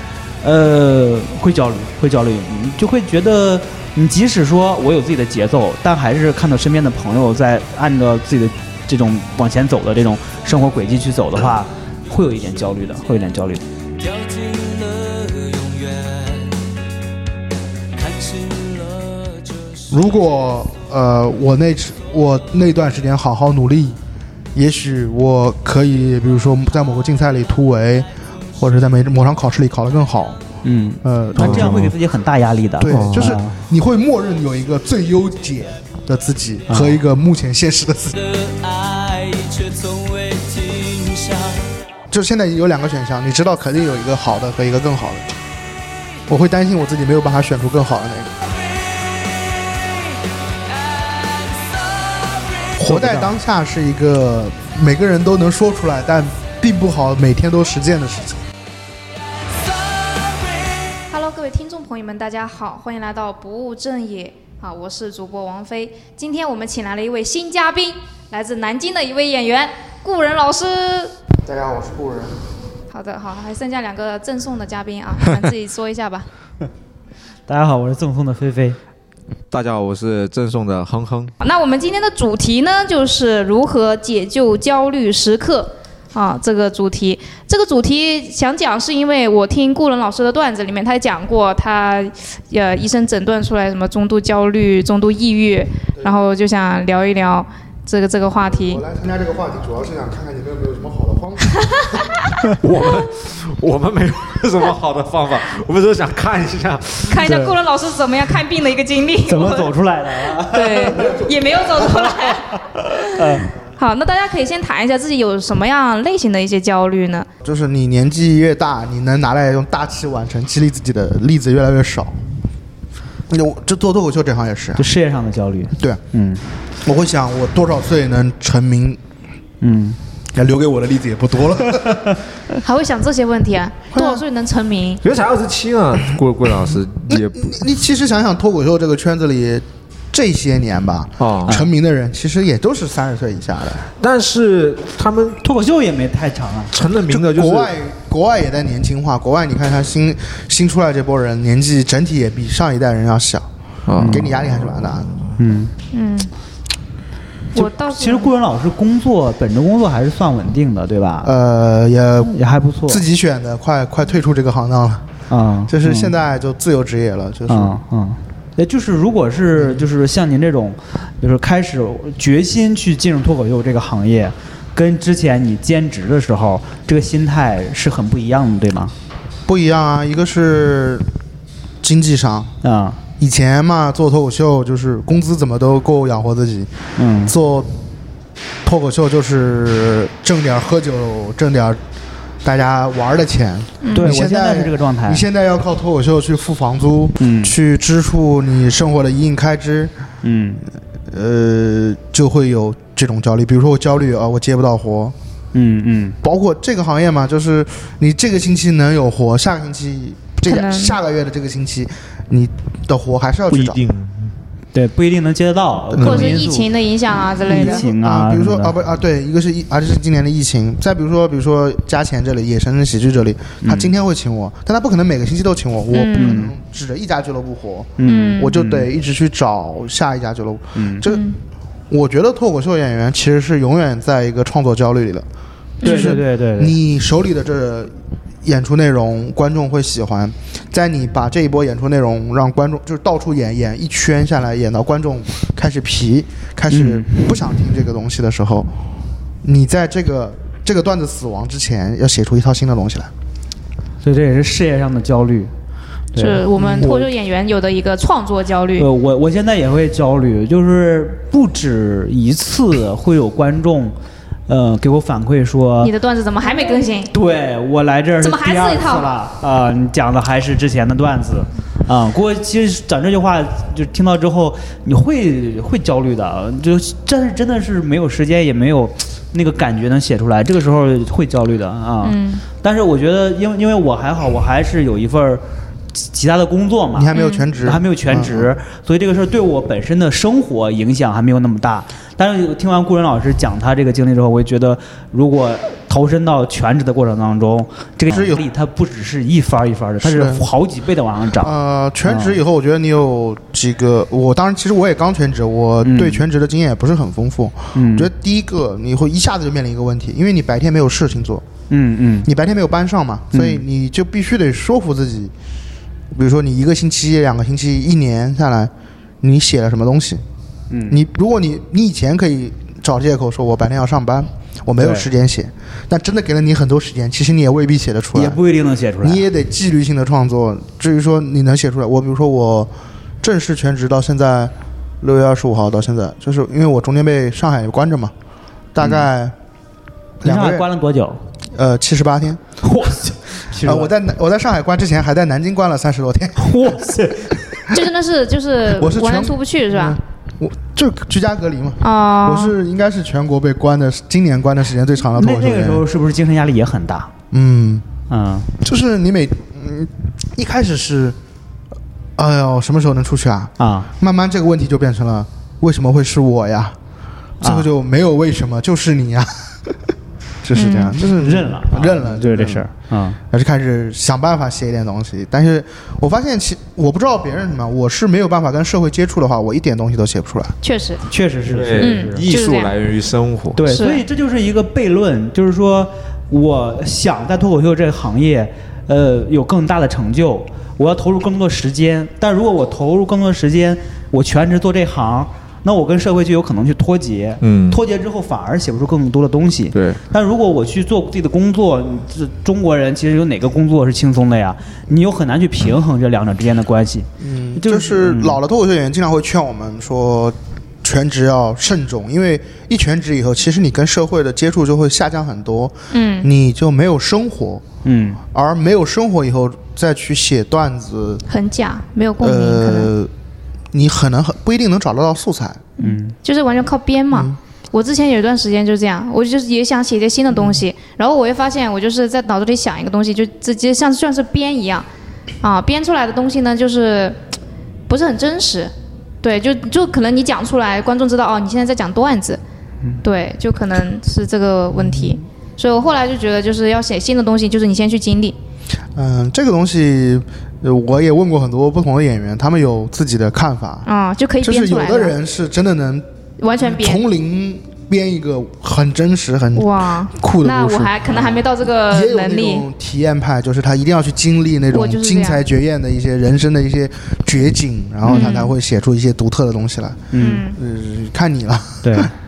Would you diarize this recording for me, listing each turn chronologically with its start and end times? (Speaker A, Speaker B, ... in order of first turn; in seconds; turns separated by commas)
Speaker A: 0.4-13.6, Speaker B: 14.0-16.7, Speaker B: 17.9-20.2, Speaker C: 19.9-24.0, Speaker C: 24.5-28.1, Speaker C: 28.6-30.4, Speaker A: 30.6-33.6, Speaker C: 31.0-31.9, Speaker D: 31.4-31.9, Speaker C: 32.8-38.1, Speaker D: 32.9-33.3, Speaker A: 36.7-37.0, Speaker B: 38.1-41.7, Speaker C: 42.1-45.3, Speaker C: 46.3-48.4, Speaker B: 50.8-52.8, Speaker A: 52.8-53.3, Speaker C: 52.8-58.4, Speaker E: 61.1-71.1, Speaker C: 71.4-72.4, Speaker E: 72.9-76.3, Speaker A: 77.5-78.8, Speaker D: 79.5-81.3, Speaker E: 81.4-98.8, Speaker C: 98.5-102.0, Speaker E: 101.6-101.8, Speaker D: 102.5-107.2, Speaker E: 107.0-109.7, Speaker A: 107.2-107.6, Speaker A: 109.2-111.2, Speaker E: 110.3-117.3, Speaker A: 111.9-113.5, Speaker C: 117.4-122.2, Speaker C: 123.3-124.8, Speaker A: 124.8-126.4, Speaker C: 126.8-129.0, Speaker A: 129.6-130.0, Speaker C: 130.3-132.2, Speaker A: 131.8-132.1, Speaker E: 132.6-135.0, Speaker C: 133.9-134.2, Speaker D: 135.0-137.5, Speaker C: 137.1-143.9, Speaker D: 141.2-141.6, Speaker D: 144.0-145.4, Speaker A: 145.4-146.7, Speaker D: 146.7-147.7, Speaker C: 147.1-153.5, Speaker D: 153.9-154.3, Speaker A: 154.0-154.3, Speaker C: 154.1-155.1, Speaker A: 155.4-155.7, Speaker E: 155.9-156.3, Speaker E: 157.5-158.3, Speaker A: 157.5-161.3, Speaker C: 161.2-162.3, Speaker A: 162.2-163.0, Speaker C: 162.9-165.0, Speaker A: 165.3-166.1, Speaker C: 165.7-167.8, Speaker A: 167.5-178.9, Speaker C: 179.5-181.1, Speaker C: 181.8-182.5, Speaker A: 182.6-183.0, Speaker C: 183.2-186.7, Speaker A: 186.9-187.3, Speaker C: 187.2-187.7, Speaker C: 188.6-191.8, Speaker C: 192.4-199.9, Speaker E: 193.8-194.1, Speaker A: 193.9-195.2, Speaker A: 197.2-197.6, Speaker A: 200.2-200.6, Speaker C: 201.1-205.1, Speaker A: 205.5-206.2, Speaker C: 206.2-213.8, Speaker E: 210.5-211.0, Speaker D: 213.5-214.3, Speaker A: 214.7-216.7, Speaker E: 216.0-217.8, Speaker A: 217.4-218.8, Speaker C: 217.4-231.2, Speaker A: 223.6-223.9, Speaker E: 225.9-226.4, Speaker A: 226.1-226.5, Speaker A: 228.0-228.9, Speaker E: 228.0-228.5, Speaker A: 230.7-231.0, Speaker E: 231.0-231.4, Speaker C: 231.9-235.2, Speaker E: 235.8-236.2, Speaker A: 235.8-236.8, Speaker C: 235.8-237.9, Speaker C: 238.4-248.7, Speaker A: 246.7-247.4, Speaker C: 249.4-253.1, Speaker A: 254.0-255.5, Speaker A: 256.1-257.1, Speaker E: 256.2-258.9, Speaker C: 256.6-256.9, Speaker A: 258.8-263.9, Speaker A: 264.5-265.9, Speaker E: 265.8-267.1, Speaker A: 267.1-285.4, Speaker E: 268.2-269.1, Speaker E: 282.0-282.4, Speaker A: 285.9-301.5, Speaker C: 286.9-288.5, Speaker E: 287.1-287.5, Speaker C: 298.1-298.4, Speaker C: 300.0-300.5, Speaker C: 301.4-311.4, Speaker A: 302.0-302.4, Speaker A: 305.8-306.2, Speaker A: 307.7-308.1, Speaker A: 311.7-312.3, Speaker C: 312.2-315.3, Speaker A: 313.3-313.6, Speaker C: 316.1-320.2, Speaker A: 320.7-321.0, Speaker C: 320.9-328.4, Speaker A: 324.8-325.1, Speaker A: 328.1-329.2, Speaker C: 329.0-338.1, Speaker C: 338.7-339.3, Speaker C: 340.2-340.7, Speaker A: 340.2-341.2, Speaker C: 341.5-342.4, Speaker A: 342.6-343.9, Speaker C: 343.6-346.9, Speaker A: 346.3-347.4, Speaker E: 347.7-350.0, Speaker C: 348.7-355.8, Speaker E: 351.8-352.5, Speaker A: 355.1-357.1, Speaker C: 357.3-357.8, Speaker A: 358.1-358.5, Speaker C: 358.6-361.2, Speaker C: 362.2-366.8, Speaker A: 363.6-363.9, Speaker A: 367.4-367.7, Speaker C: 367.4-372.7, Speaker E: 370.5-371.0, Speaker A: 371.1-373.2, Speaker C: 373.3-380.5, Speaker E: 380.6-381.0, Speaker A: 381.1-382.3, Speaker D: 381.5-383.6, Speaker E: 381.8-382.7, Speaker A: 383.6-408.4, Speaker E: 383.7-384.0, Speaker D: 397.4-397.8, Speaker D: 399.7-400.0, Speaker C: 407.2-417.6, Speaker E: 415.9-416.3, Speaker A: 417.8-418.2, Speaker C: 418.3-421.2, Speaker E: 421.3-422.9, Speaker C: 422.2-423.1, Speaker C: 423.7-425.6, Speaker E: 425.8-434.9, Speaker A: 425.8-426.1, Speaker C: 427.1-427.4, Speaker E: 435.4-437.2, Speaker E: 437.9-442.4, Speaker E: 443.0-448.4, Speaker C: 444.8-445.1, Speaker C: 448.9-453.9, Speaker E: 453.8-455.1, Speaker C: 454.4-456.1, Speaker E: 456.4-457.0, Speaker C: 456.6-472.1, Speaker E: 459.5-462.6, Speaker E: 464.7-465.4, Speaker A: 468.0-468.4, Speaker E: 468.1-468.5, Speaker A: 470.1-470.4, Speaker E: 470.2-470.6, Speaker A: 471.8-472.1